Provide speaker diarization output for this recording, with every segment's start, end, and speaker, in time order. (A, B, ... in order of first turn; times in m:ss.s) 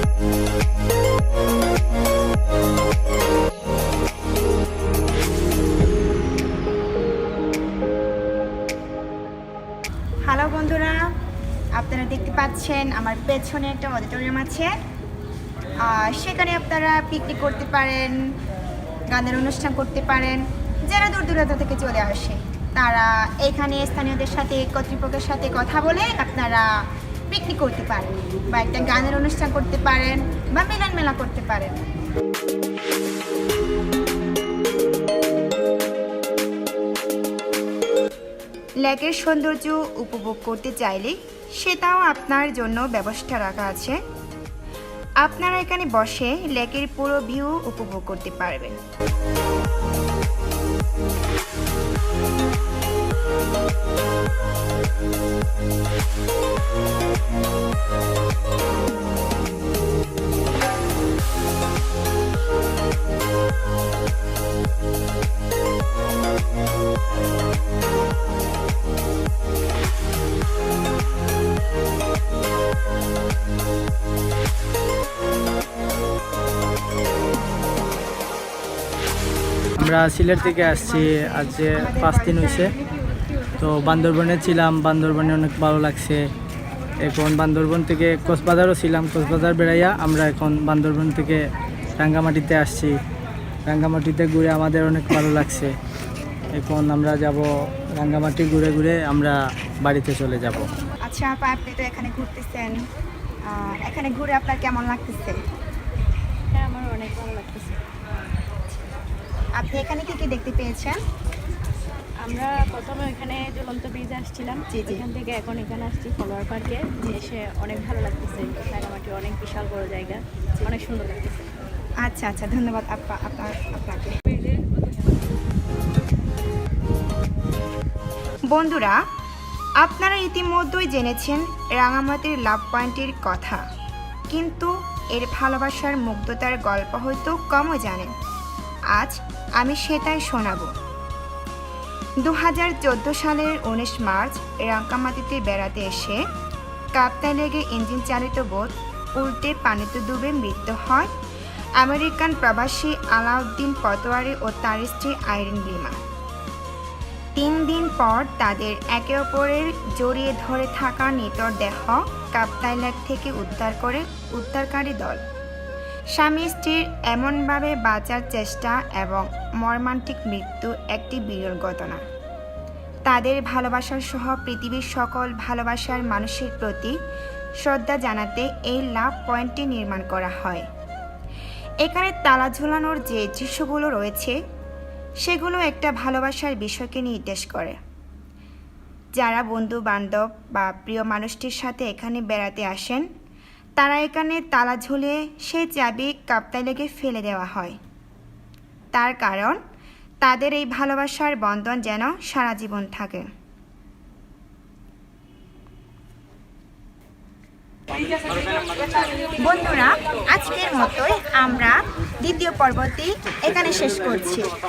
0:10.2-0:11.0 A
0:11.8-0:14.7 A
0:15.8-0:18.2 A
0:19.1-0:31.8 A
0:38.8-0:44.0 A
0:45.2-0:48.8 A
1:19.8-1:22.7 B
1:21.8-1:22.4 A
1:23.6-1:26.2 B
1:27.0-1:31.4 B
1:32.0-1:32.9 B
1:33.7-1:35.7 B
1:36.6-1:37.4 B
1:38.0-1:40.7 B
1:41.0-1:42.8 A
1:43.5-1:45.4 A
1:46.5-1:47.8 C
1:49.6-1:51.0 A
1:52.2-2:01.5 C
1:54.7-1:55.0 A
2:02.0-2:04.1 A
2:08.5-2:09.0 A
2:09.8-2:13.6 A
2:14.3-2:18.1 A
2:18.9-2:20.7 A
2:22.2-2:26.2 A
2:26.9-2:31.1 A
2:31.8-2:36.0 A
2:37.4-2:45.2 A
2:46.1-2:52.0 A
2:53.0-2:57.0 A
2:57.6-3:00.7 A
3:01.8-3:04.4 A
3:05.2-3:07.8 A
3:09.2-3:13.1 A
3:13.8-3:17.8 A
3:18.9-3:19.6 A
3:20.2-3:23.2 A
3:29.4-3:34.5 A